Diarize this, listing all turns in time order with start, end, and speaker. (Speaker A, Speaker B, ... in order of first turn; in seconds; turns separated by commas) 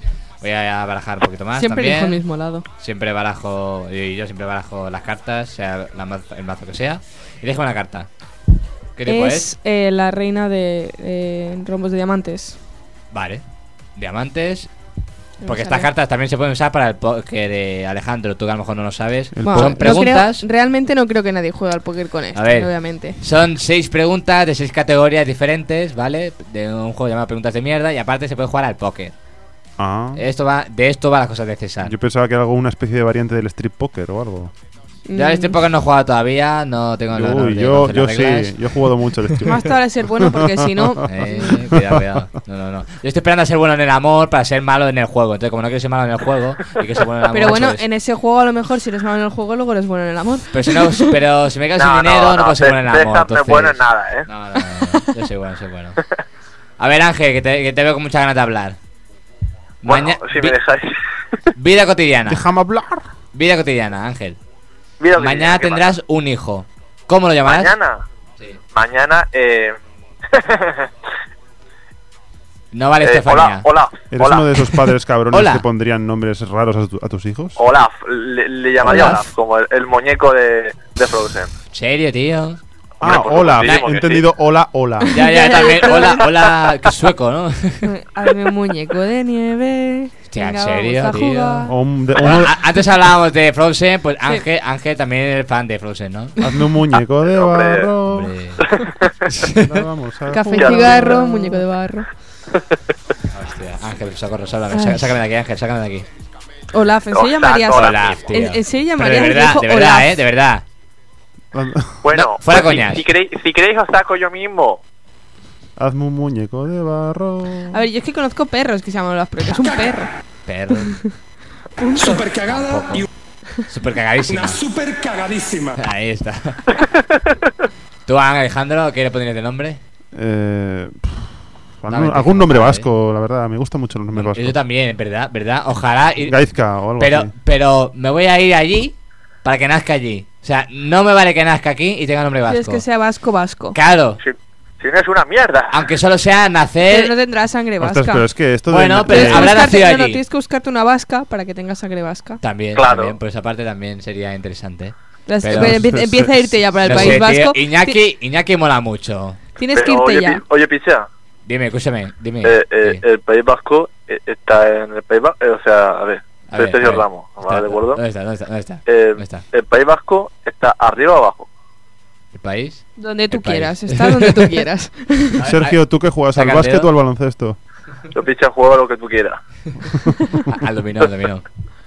Speaker A: 0.4-2.2, Speaker B: 1.5-2.6, Speaker A: 2.8-8.1, Speaker A: 8.9-9.5, Speaker B: 9.1-12.6, Speaker A: 13.1-13.4, Speaker A: 13.9-14.7, Speaker B: 15.4-15.9, Speaker A: 15.4-20.4, Speaker C: 19.3-20.0, Speaker B: 19.4-23.2, Speaker A: 22.3-29.1, Speaker C: 29.8-30.2, Speaker A: 30.1-31.9, Speaker C: 31.8-34.5, Speaker B: 35.1-35.5, Speaker A: 35.1-38.5, Speaker C: 37.1-42.2, Speaker B: 39.4-41.6, Speaker A: 41.0-47.8, Speaker B: 47.3-51.0, Speaker A: 50.5-56.0, Speaker D: 51.7-54.3, Speaker A: 56.8-58.8, Speaker A: 59.8-60.6, Speaker D: 59.8-61.0, Speaker A: 61.6-62.4, Speaker C: 62.2-63.1, Speaker A: 63.3-64.4, Speaker D: 65.0-66.0, Speaker A: 65.2-67.7, Speaker D: 67.4-68.0, Speaker D: 68.7-69.8, Speaker D: 70.3-70.9, Speaker A: 72.7-73.7, Speaker D: 73.0-74.5, Speaker C: 74.1-77.6, Speaker A: 75.3-75.6, Speaker D: 77.5-81.5, Speaker A: 78.8-79.2, Speaker A: 81.7-82.6, Speaker D: 83.0-84.2, Speaker C: 83.0-85.2, Speaker A: 83.6-83.9, Speaker B: 85.1-86.3, Speaker A: 85.1-87.9, Speaker B: 87.8-91.7, Speaker A: 90.3-96.4, Speaker C: 91.7-92.5, Speaker C: 96.4-98.3, Speaker D: 97.2-97.9, Speaker A: 98.0-98.7, Speaker D: 98.6-99.1, Speaker A: 99.3-99.8, Speaker C: 99.5-101.6, Speaker B: 100.3-102.1, Speaker D: 100.5-101.2, Speaker A: 103.3-106.0, Speaker B: 104.7-105.2, Speaker B: 106.7-110.2, Speaker D: 107.1-108.3, Speaker A: 107.7-110.6, Speaker C: 111.5-112.0, Speaker D: 112.0-114.8, Speaker A: 112.1-113.0, Speaker C: 115.8-117.8, Speaker B: 117.7-120.1, Speaker E: 119.6-119.9, Speaker A: 120.5-121.0, Speaker B: 121.8-122.2, Speaker E: 122.0-123.1, Speaker A: 122.3-123.1, Speaker A: 123.7-124.6, Speaker E: 124.3-125.8, Speaker A: 125.8-126.6, Speaker A: 128.1-129.8, Speaker C: 130.1-134.6, Speaker A: 131.9-132.9, Speaker A: 134.1-136.3, Speaker C: 136.2-137.3, Speaker A: 137.0-142.8, Speaker B: 142.5-143.8, Speaker A: 143.7-144.2, Speaker D: 144.2-145.8, Speaker A: 145.7-147.1, Speaker B: 146.8-148.2, Speaker C: 147.8-149.6, Speaker A: 148.7-150.2, Speaker B: 149.0-152.4, Speaker A: 152.4-155.9, Speaker D: 152.7-153.2, Speaker B: 155.3-158.0, Speaker C: 155.5-157.2, Speaker A: 156.8-159.4, Speaker B: 159.6-160.4, Speaker D: 159.7-161.1, Speaker A: 161.4-163.0, Speaker D: 162.4-168.0, Speaker A: 166.5-169.4, Speaker D: 168.8-171.5, Speaker A: 172.3-174.6, Speaker B: 173.0-175.4, Speaker A: 175.4-175.8, Speaker C: 175.4-177.6, Speaker A: 176.3-176.9, Speaker D: 178.1-179.4, Speaker A: 180.5-181.4